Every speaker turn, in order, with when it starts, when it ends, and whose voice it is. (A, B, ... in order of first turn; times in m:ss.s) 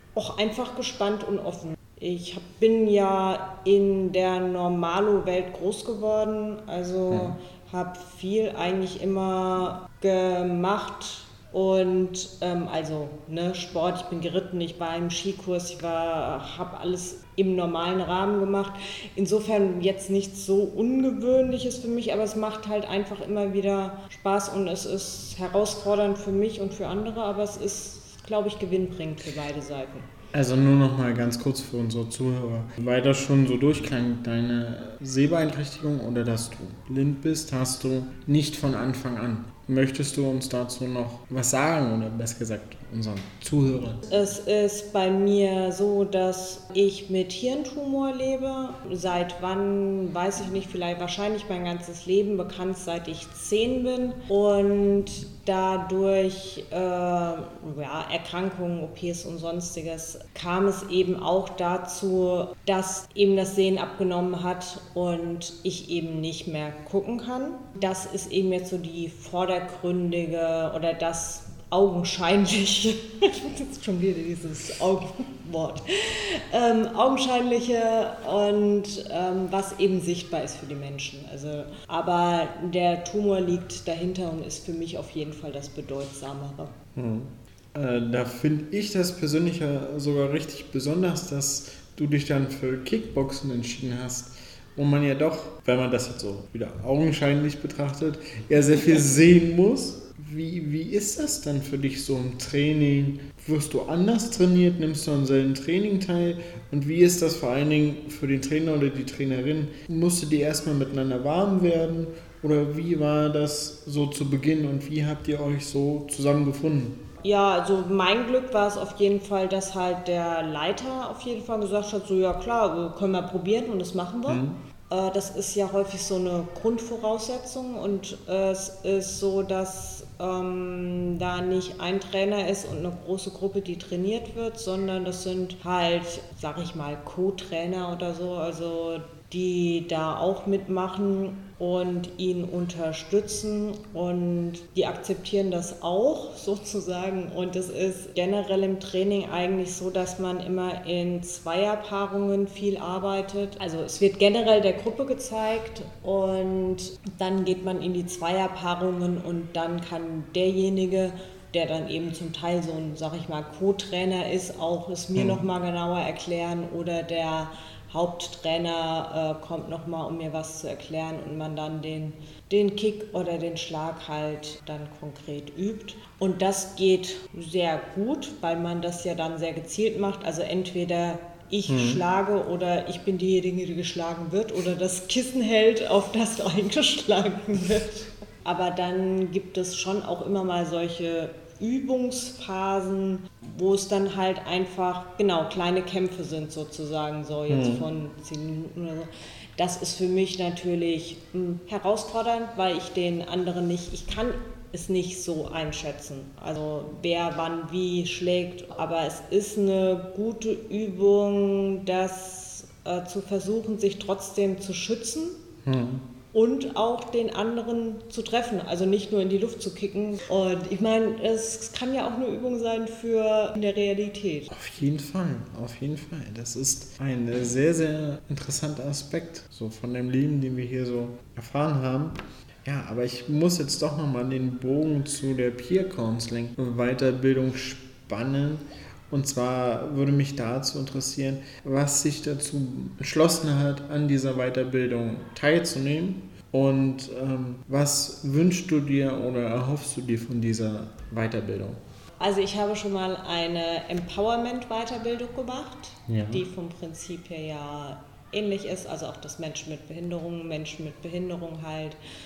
0:00.1-0:30.1 A
0:07.1-0:07.4 B
0:30.3-0:44.0 B
0:44.0-1:26.7 A
1:26.9-1:57.0 B
1:57.2-3:35.4 A
2:04.3-2:04.6 B
2:45.1-2:45.4 B
3:01.7-3:02.0 B
3:17.5-3:17.9 B
3:35.6-3:36.1 B
3:36.3-3:44.5 A
3:44.5-4:11.8 B
4:12.2-4:22.0 A
4:16.1-4:16.5 B